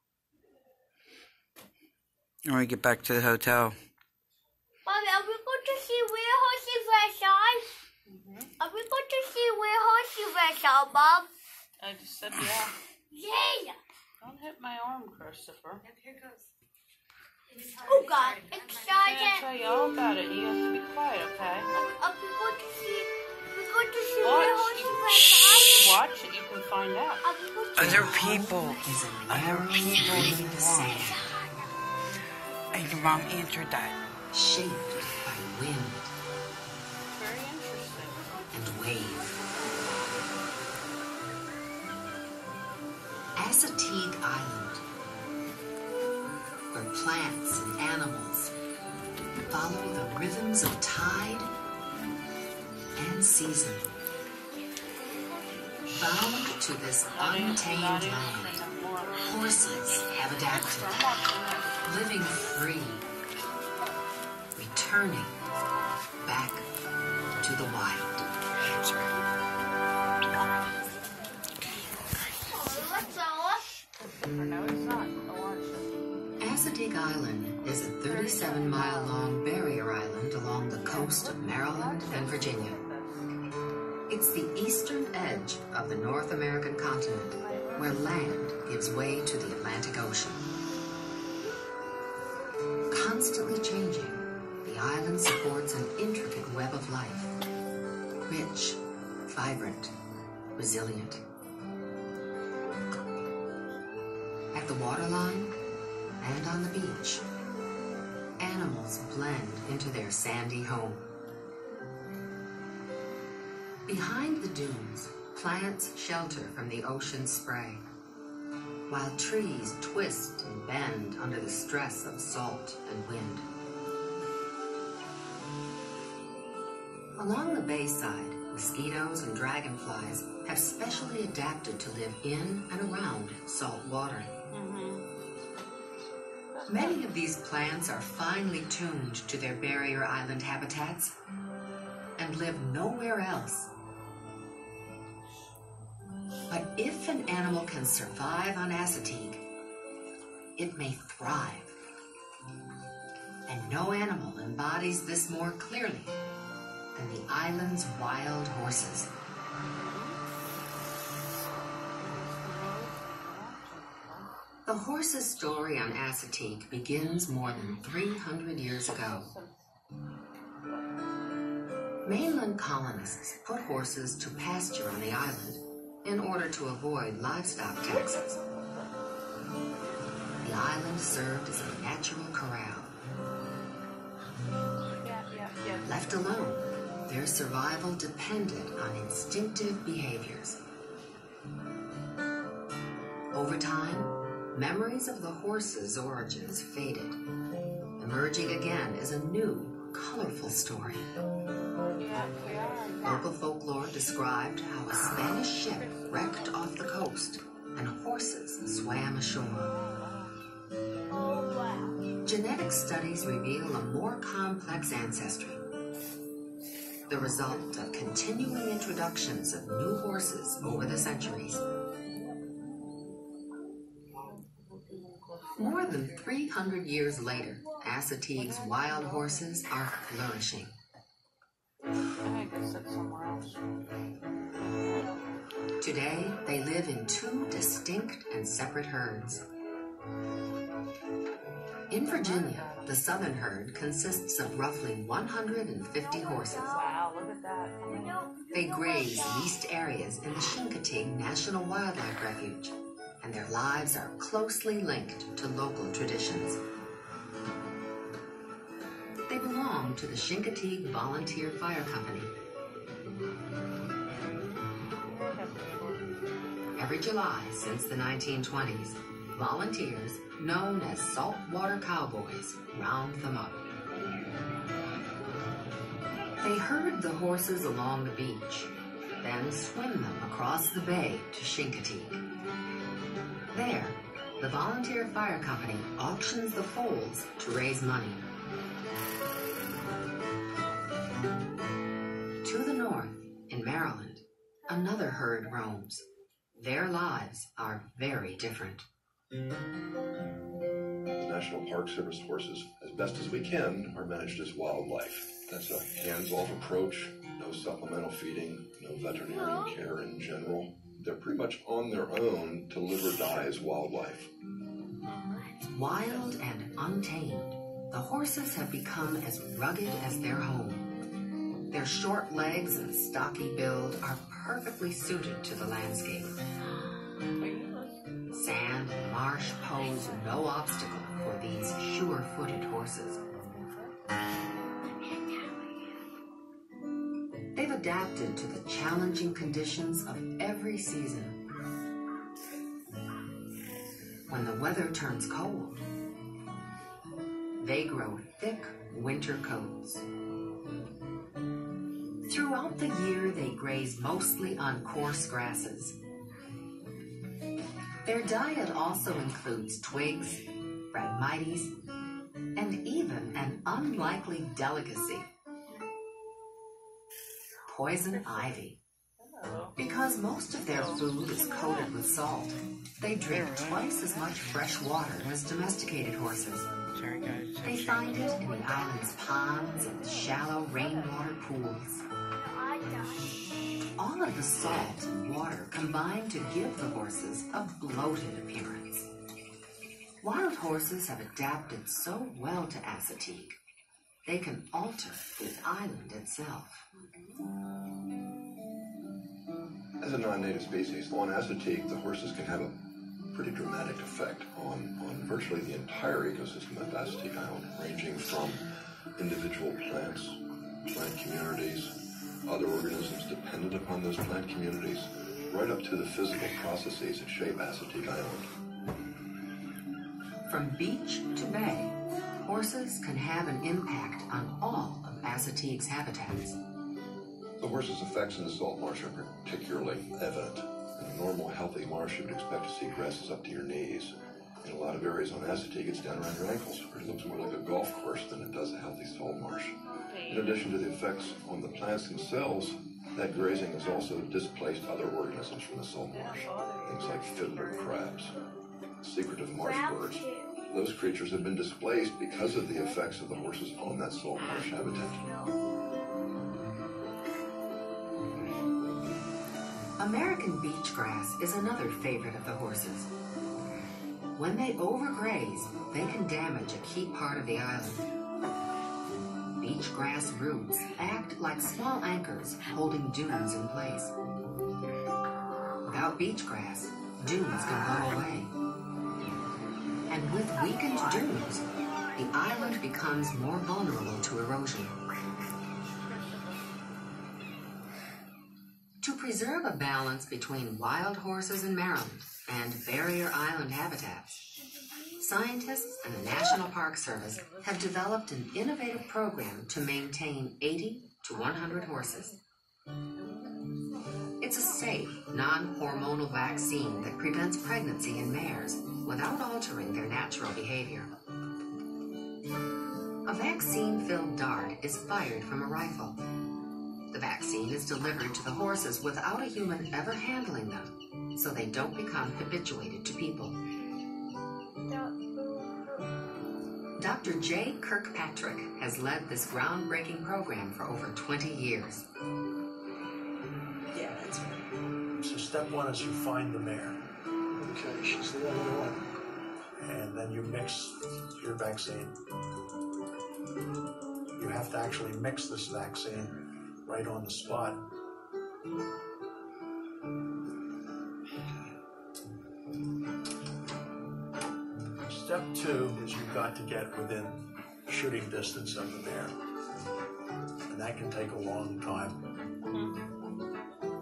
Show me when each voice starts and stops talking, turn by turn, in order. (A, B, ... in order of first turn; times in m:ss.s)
0:02.5-0:03.8 A
0:04.8-0:07.7 B
0:08.1-0:08.5 C
0:08.6-0:11.3 B
0:11.8-0:12.8 C
0:13.1-0:13.8 B
0:14.2-0:15.8 C
0:17.8-0:19.5 B
0:18.9-0:21.7 C
0:21.7-0:26.0 B
0:24.2-0:27.2 C
0:27.2-0:28.4 B
0:27.8-0:31.2 A
0:27.8-0:31.3 D
0:29.9-0:31.5 B
0:32.7-0:34.0 A
0:34.3-0:36.1 D
0:37.1-0:38.5 C
0:38.5-0:39.4 D
0:39.4-0:40.0 C
0:43.4-0:44.8 D
0:46.7-0:48.5 D
0:49.5-0:51.5 D
0:53.0-0:54.0 D
0:55.9-0:58.6 D
0:57.1-1:02.9 C
0:59.2-1:01.1 D
1:01.8-1:03.0 D
1:04.6-1:05.4 D
1:06.2-1:06.7 D
1:07.4-1:08.3 D
1:12.5-1:13.6 B
1:12.7-1:13.0 C
1:14.0-1:16.1 C
1:16.4-1:22.8 D
1:18.0-1:19.3 C
1:20.4-1:23.3 C
1:24.1-1:30.5 D
1:27.4-1:28.1 C
1:32.9-1:37.3 D
1:38.3-1:39.9 D
1:40.6-1:41.2 D
1:44.5-1:45.5 D
1:46.2-1:47.2 D
1:48.4-1:51.0 D
1:53.9-1:57.8 D
1:58.9-2:03.5 D
2:07.2-2:14.3 D
2:14.5-2:15.1 C
2:16.5-2:17.1 C
2:16.7-2:21.1 D
2:22.2-2:23.7 D
2:26.5-2:29.4 D
2:30.6-2:31.8 D
2:33.5-2:36.2 D
2:37.0-2:39.1 D
2:39.6-2:40.2 C
2:42.0-2:44.3 C
2:44.7-2:49.3 D
2:47.4-2:47.9 C
2:48.8-2:49.7 C
2:52.0-2:58.4 D
3:00.4-3:03.0 D
3:05.0-3:06.5 C
3:05.8-3:10.6 D
3:13.3-3:17.2 D
3:18.0-3:21.1 D
3:21.9-3:23.3 C
3:23.0-3:29.7 D
3:25.7-3:26.6 C
3:29.5-3:30.4 C
3:31.1-3:32.0 B
3:32.2-3:35.6 D
3:37.1-3:41.6 D
3:42.1-3:42.5 C
3:44.1-3:46.6 C
3:45.6-3:50.8 D
3:48.3-3:49.5 C
3:52.2-3:53.7 C
3:54.8-3:55.2 C
3:55.8-3:59.4 D
4:01.9-4:06.8 D
4:01.9-4:03.1 C
4:06.0-4:07.0 B
4:06.7-4:08.2 C
4:07.8-4:09.6 B
4:08.5-4:16.6 D
4:19.3-4:22.3 D
4:25.0-4:26.1 C
4:26.8-4:33.7 D
4:36.4-4:42.2 D
4:43.5-4:48.2 D
4:52.4-4:58.8 D
5:01.2-5:14.3 E
5:09.3-5:09.8 B
5:15.0-5:15.5 C
5:15.7-5:20.9 D
5:21.7-5:26.4 D
5:26.6-5:28.0 C
5:28.3-5:33.2 D
5:29.6-5:30.2 C
5:33.2-5:34.0 C
5:35.0-5:36.0 B
5:37.6-5:41.4 D
5:44.3-5:45.8 D
5:47.6-5:50.0 D
5:52.3-5:56.0 D
5:58.0-6:01.7 D
6:02.6-6:05.3 D
6:07.7-6:08.8 D
6:07.9-6:08.6 C
6:09.2-6:09.8 C
6:09.8-6:16.7 D
6:10.5-6:12.0 C
6:13.2-6:14.0 A
6:14.0-6:14.4 C
6:16.9-6:18.3 A
6:17.6-6:22.0 D
6:18.3-6:21.3 C
6:22.4-6:23.4 B
6:24.0-6:29.1 D
6:30.2-6:33.6 D
6:34.2-6:36.8 D
6:36.9-6:37.5 C
6:40.0-6:42.8 E
6:43.3-6:48.6 E
6:49.2-6:52.0 E
6:52.5-6:58.5 E
7:00.5-7:06.6 D
7:07.6-7:19.8 E
7:19.9-7:20.7 C
7:20.3-7:28.3 E
7:26.1-7:28.2 C
7:29.0-7:35.3 E
7:29.6-7:30.6 B
7:35.1-7:35.5 B
7:40.0-7:43.1 D
7:44.4-7:48.1 D
7:49.6-7:54.1 D
7:55.8-7:58.6 D
8:00.1-8:05.0 D
8:00.6-8:02.7 B
8:06.0-8:06.8 C
8:09.0-8:14.5 D
8:14.6-8:15.3 B
8:15.2-8:22.3 D
8:17.3-8:17.8 C
8:21.3-8:22.4 C
8:23.2-8:24.8 C
8:24.4-8:31.1 D
8:26.2-8:27.1 C
8:33.3-8:36.2 D
8:37.1-8:43.6 D
8:44.9-8:46.1 B
8:47.0-8:52.0 D
8:54.0-8:54.4 F
8:55.2-8:57.0 F
8:57.6-8:59.1 F
8:59.8-9:02.2 F
9:04.4-9:07.8 F
9:15.1-9:19.3 F
9:20.7-9:22.3 F
9:22.7-9:23.1 C